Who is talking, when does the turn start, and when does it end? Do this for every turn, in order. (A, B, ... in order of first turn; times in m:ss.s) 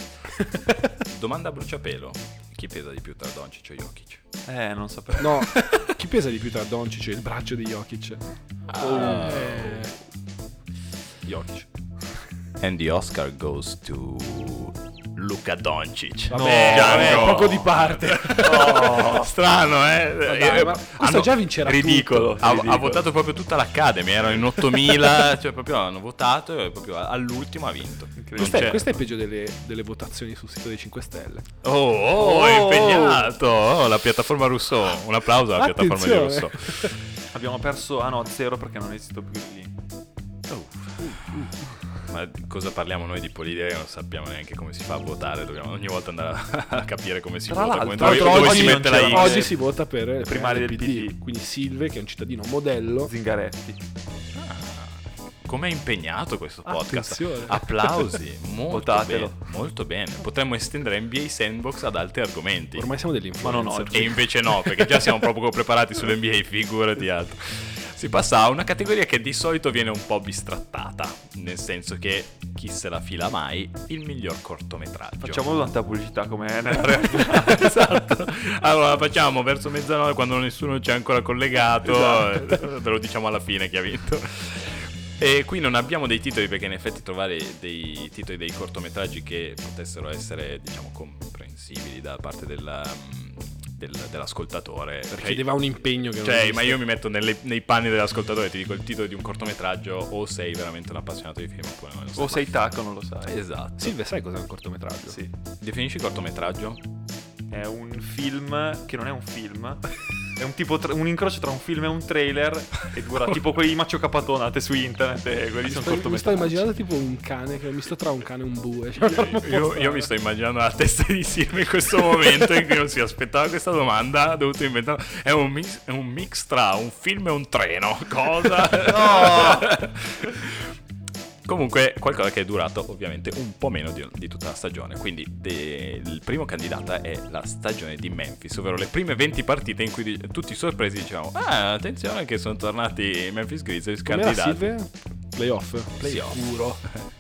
0:00.4-0:00.9 A
0:01.0-0:04.2 B
0:04.4-0:05.5 C
0:05.2-0:08.2 A
0:05.5-0:05.9 B
0:08.7-0:09.9 B
0:08.8-0:09.9 A
0:08.9-0:09.4 C
0:11.2-0:11.7 A
0:12.6-0:21.3 B
0:16.3-0:19.1 A
0:16.3-0:17.7 C
0:18.3-0:19.3 C
0:20.2-0:22.8 A
0:21.6-0:23.1 C
0:22.4-0:28.8 B
0:28.2-0:28.8 C
0:28.4-0:31.4 A
0:31.6-0:37.0 B
0:32.2-0:33.3 C
0:35.5-0:36.9 A
0:37.3-0:39.8 C
0:40.5-0:41.5 B
0:41.0-0:41.5 A
0:42.1-0:49.5 B
0:47.5-0:49.6 C
0:48.0-0:53.1 A
0:50.2-0:51.2 C
0:53.0-0:53.8 C
0:54.4-1:02.9 B
0:56.6-0:58.1 A
0:58.7-0:59.4 C
1:02.7-1:04.1 A
1:03.4-1:04.2 C
1:03.9-1:15.5 B
1:15.2-1:17.7 C
1:17.1-1:35.6 B
1:21.9-1:22.6 A
1:35.1-1:36.8 A
1:36.2-1:42.7 B
1:42.2-1:43.4 C
1:43.2-1:43.9 B
1:43.8-1:45.2 A
1:45.1-1:45.3 C
1:45.6-1:46.8 B
1:47.5-1:56.7 C
1:55.6-2:00.1 A
1:59.1-2:10.7 B
2:11.4-2:24.7 B
2:24.0-2:26.8 A
2:26.0-2:26.4 B